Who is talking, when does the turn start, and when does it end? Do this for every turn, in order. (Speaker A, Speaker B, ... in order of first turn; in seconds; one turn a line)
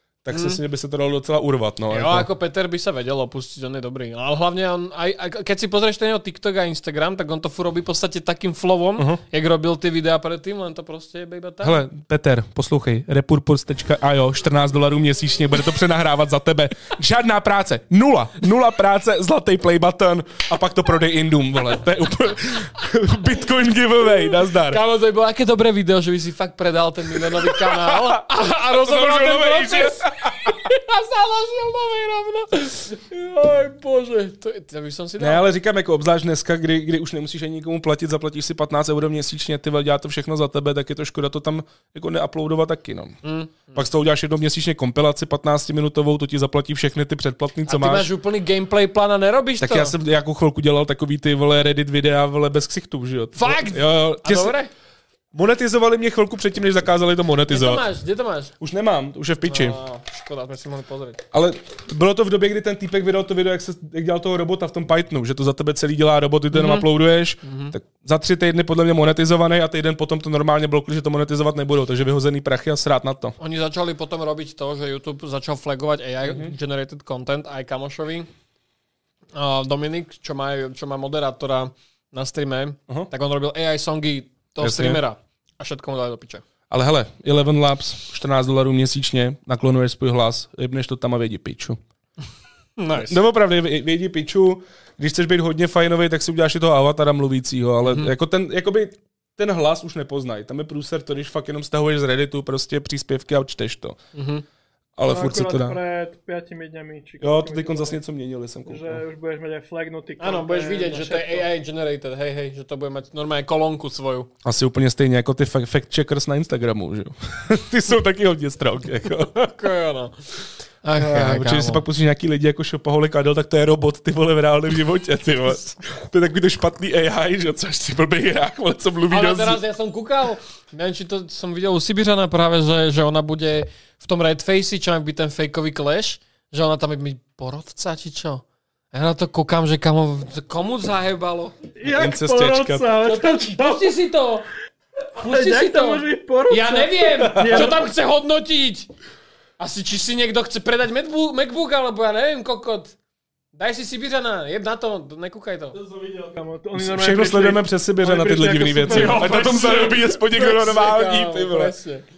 Speaker A: 0.2-2.3
Speaker B: 0.3-0.6
Speaker B: 1.9-11.8
Speaker A: 11.6-24.8
Speaker B: 24.6-35.5
Speaker A: 27.2-30.6
Speaker A: 35.2-43.2
Speaker B: 43.2-43.9
Speaker A: 43.7-48.1
Speaker B: 47.7-50.0
Speaker A: 49.6-54.5
Speaker B: 53.4-54.7
Speaker A: 55.3-57.9
Speaker B: 57.5-58.5
Speaker A: 58.6-59.8
Speaker B: 59.4-61.2
Speaker A: 61.3-73.4
Speaker B: 66.5-66.9
Speaker B: 67.4-67.8
Speaker B: 73.4-78.3
Speaker A: 76.2-76.5
Speaker B: 79.3-86.4
Speaker A: 84.6-85.0
Speaker A: 86.7-91.8
Speaker B: 92.8-93.2
Speaker A: 92.9-104.0
Speaker B: 97.9-98.1
Speaker B: 104.1-104.5
Speaker A: 105.0-105.8
Speaker C: 105.1-108.0
Speaker A: 107.2-109.0
Speaker C: 108.7-111.5
Speaker B: 110.2-114.3
Speaker A: 114.4-119.3
Speaker B: 119.2-120.2
Speaker B: 120.8-121.8
Speaker A: 121.0-129.6
Speaker B: 129.1-141.6
Speaker C: 141.8-144.0
Speaker A: 141.8-142.9
Speaker B: 143.0-144.5
Speaker B: 145.2-148.9
Speaker C: 145.2-147.8
Speaker A: 147.2-147.7
Speaker B: 149.6-153.0
Speaker B: 153.5-155.8
Speaker C: 155.8-160.0
Speaker A: 156.8-161.7
Speaker B: 158.8-162.1